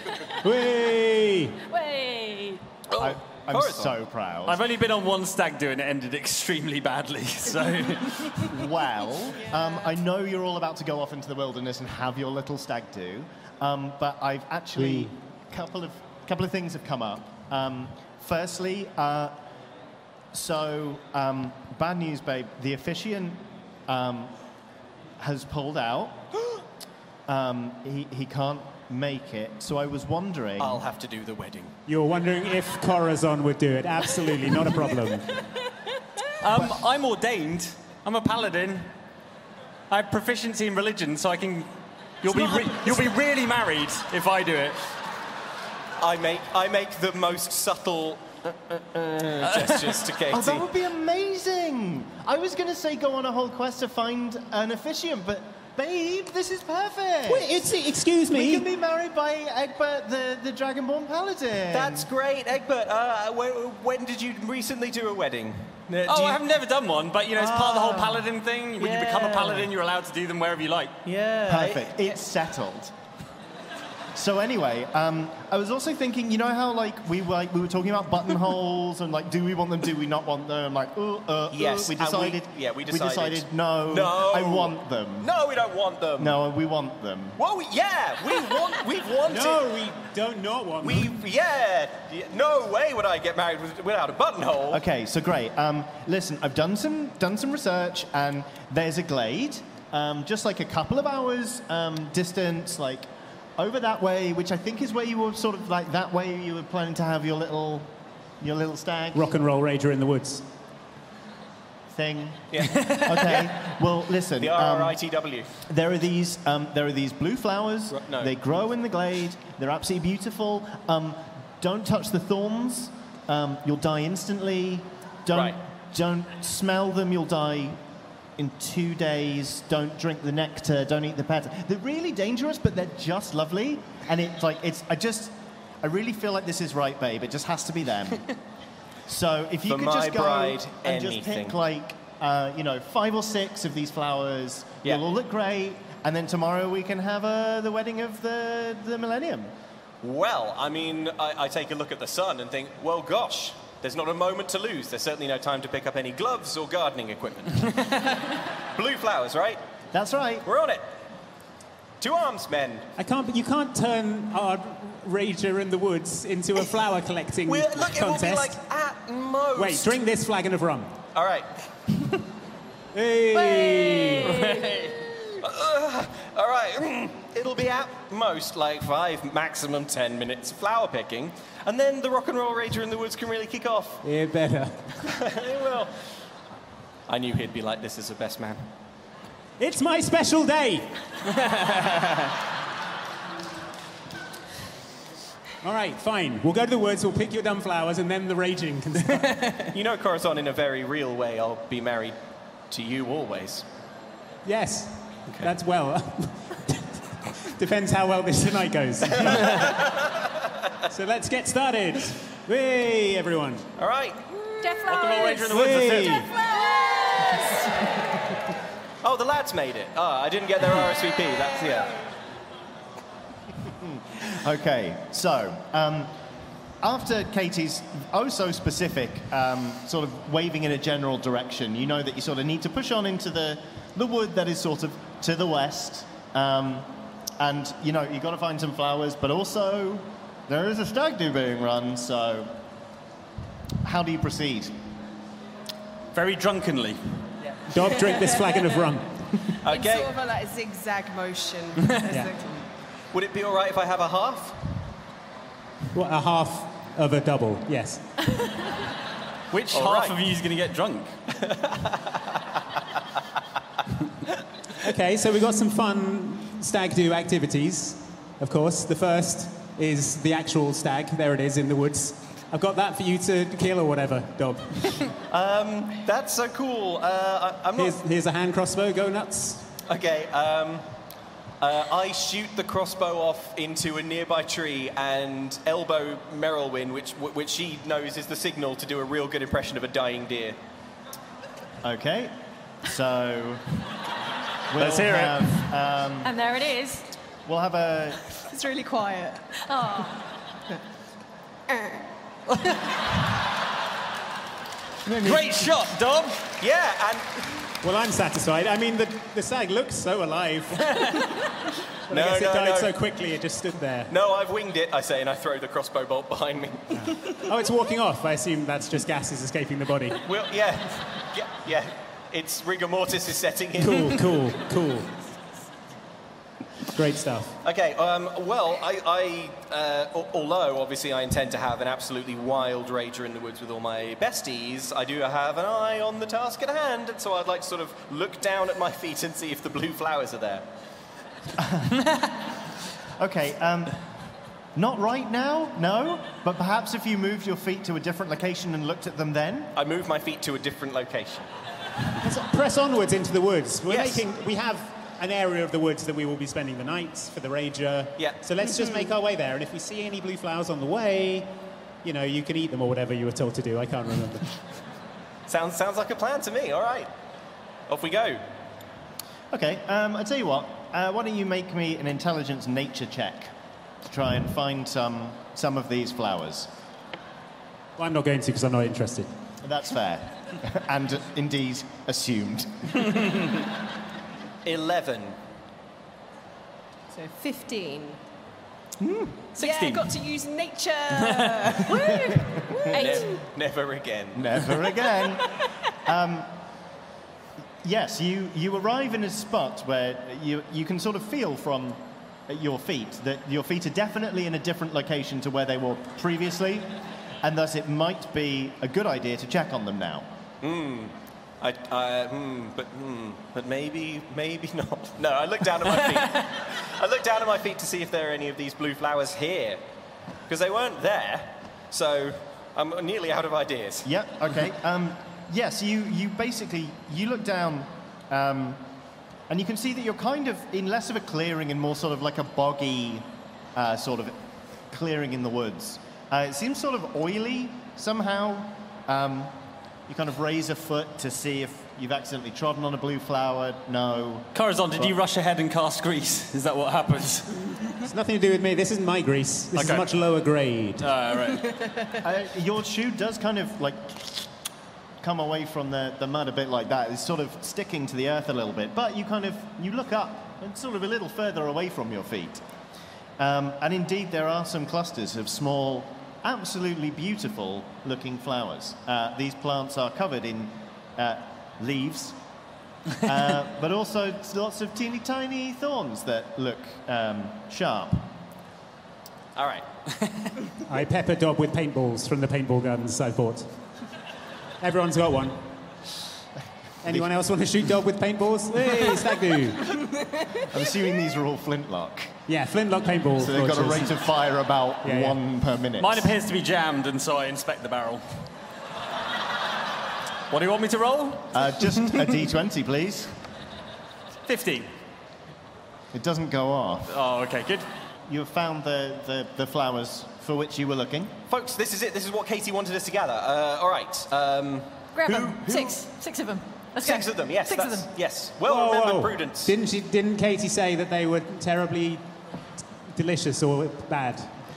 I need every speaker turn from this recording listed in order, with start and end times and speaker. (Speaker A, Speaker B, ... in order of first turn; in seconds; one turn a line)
Speaker A: 0.4-1.6
Speaker B: 1.7-2.6
Speaker C: 2.9-4.0
Speaker D: 2.9-4.6
Speaker E: 4.5-8.6
Speaker D: 8.5-19.4
Speaker A: 14.8-15.1
Speaker D: 20.3-24.3
Speaker D: 25.2-26.3
Speaker D: 27.3-30.8
Speaker C: 30.6-31.7
Speaker A: 31.9-35.3
Speaker E: 36.4-38.9
Speaker E: 39.9-41.7
Speaker E: 42.2-44.8
Speaker C: 46.0-50.7
Speaker E: 49.5-49.9
Speaker D: 50.3-57.7
Speaker A: 57.2-58.7
Speaker D: 58.3-62.1
Speaker C: 61.7-66.4
Speaker E: 66.1-71.0
Speaker D: 67.4-68.2
Speaker C: 68.8-69.7
Speaker C: 71.0-72.2
Speaker D: 71.5-72.9
Speaker D: 74.1-85.3
Speaker C: 81.5-86.4
Speaker D: 86.2-87.4
Speaker C: 87.4-89.7
Speaker A: 89.3-91.2
Speaker C: 90.8-94.8
Speaker D: 94.7-109.3
Speaker A: 109.1-110.5
Speaker D: 111.9-115.0
Speaker C: 112.5-113.7
Speaker E: 112.7-113.0
Speaker C: 114.4-115.6
Speaker D: 115.6-127.8
Speaker C: 117.9-118.3
Speaker C: 125.3-125.6
Speaker D: 128.4-138.3
Speaker D: 139.1-149.5
Speaker C: 139.7-141.6
Speaker C: 150.0-159.6
Speaker D: 159.9-160.4
Speaker C: 160.4-160.8
Speaker C: 162.0-162.9
Speaker A: 163.0-168.6
Speaker C: 167.4-170.0
Speaker A: 169.5-171.0
Speaker C: 171.1-172.2
Speaker A: 172.9-174.3
Speaker B: 173.3-174.5
Speaker E: 174.3-175.1
Speaker C: 175.4-184.0
Speaker A: 184.0-185.1
Speaker C: 185.0-185.9
Speaker C: 187.1-188.7
Speaker A: 189.6-191.0
Speaker E: 191.5-192.2
Speaker A: 195.6-199.7
Speaker C: 199.5-202.2
Speaker C: 202.7-203.6
Speaker A: 204.4-209.7
Speaker C: 209.0-210.3
Speaker A: 210.9-213.7
Speaker C: 213.8-215.3
Speaker B: 214.6-217.4
Speaker E: 214.9-216.3
Speaker A: 215.5-216.3
Speaker C: 219.0-222.0
Speaker D: 223.7-226.1
Speaker D: 226.8-236.9
Speaker D: 237.4-242.5
Speaker D: 243.8-244.8
Speaker E: 246.1-247.3
Speaker A: 247.7-249.6
Speaker C: 249.6-250.1
Speaker F: 249.7-252.6
Speaker C: 253.1-254.8
Speaker A: 255.9-258.1
Speaker E: 259.5-261.1
Speaker C: 259.7-260.2
Speaker C: 261.4-262.2
Speaker A: 264.8-275.1
Speaker C: 275.3-278.0
Speaker A: 277.8-279.7
Speaker C: 279.9-280.9
Speaker C: 281.6-290.6
Speaker D: 291.8-293.7
Speaker D: 294.7-296.3
Speaker E: 294.7-295.7
Speaker B: 296.2-297.1
Speaker D: 297.4-298.3
Speaker F: 298.5-299.6
Speaker B: 299.6-300.2
Speaker F: 301.7-302.0
Speaker E: 302.6-303.0
Speaker D: 305.1-305.8
Speaker E: 305.2-306.4
Speaker C: 306.6-307.4
Speaker A: 307.8-311.2
Speaker A: 312.1-314.1
Speaker C: 312.1-312.9
Speaker C: 314.1-317.2
Speaker A: 316.9-320.2
Speaker C: 320.2-324.3
Speaker A: 323.8-325.1
Speaker A: 326.9-327.6
Speaker C: 327.6-340.6
Speaker D: 341.6-342.4
Speaker D: 343.2-344.0
Speaker D: 344.7-349.7
Speaker C: 349.7-351.5
Speaker A: 352.2-364.5
Speaker C: 353.9-354.2
Speaker C: 358.2-359.1
Speaker C: 365.5-367.1
Speaker C: 367.9-368.4
Speaker D: 369.5-373.5
Speaker D: 374.1-376.7
Speaker A: 378.0-379.3
Speaker D: 379.6-383.4
Speaker C: 384.6-385.4
Speaker F: 387.1-388.2
Speaker D: 389.0-389.5
Speaker F: 389.5-392.1
Speaker E: 389.6-390.1
Speaker E: 391.2-391.6
Speaker B: 391.9-393.3
Speaker C: 392.9-394.6
Speaker D: 394.3-396.5
Speaker D: 397.8-406.9
Speaker D: 407.4-410.3
Speaker C: 410.6-419.8
Speaker C: 420.5-424.1
Speaker D: 424.0-428.8
Speaker D: 429.5-434.3
Speaker D: 434.9-439.5
Speaker D: 440.1-445.1
Speaker E: 444.5-447.9
Speaker A: 448.1-451.1
Speaker E: 449.7-450.1
Speaker E: 451.0-451.9
Speaker D: 452.2-454.5
Speaker D: 455.2-462.6
Speaker D: 463.4-472.4
Speaker D: 473.2-478.3
Speaker C: 479.6-479.9
Speaker A: 480.9-483.7
Speaker A: 484.8-485.7
Speaker A: 487.0-489.9
Speaker D: 490.7-492.3
Speaker A: 492.5-494.2
Speaker D: 493.4-496.3
Speaker A: 495.0-495.4
Speaker E: 496.0-498.2
Speaker E: 500.5-501.9
Speaker D: 501.5-503.3
Speaker E: 504.4-504.9
Speaker D: 506.1-507.2
Speaker E: 507.1-507.9
Speaker D: 508.3-511.3
Speaker C: 511.5-516.0
Speaker B: 515.1-518.1
Speaker C: 517.0-519.7
Speaker A: 518.6-522.3
Speaker A: 523.1-524.5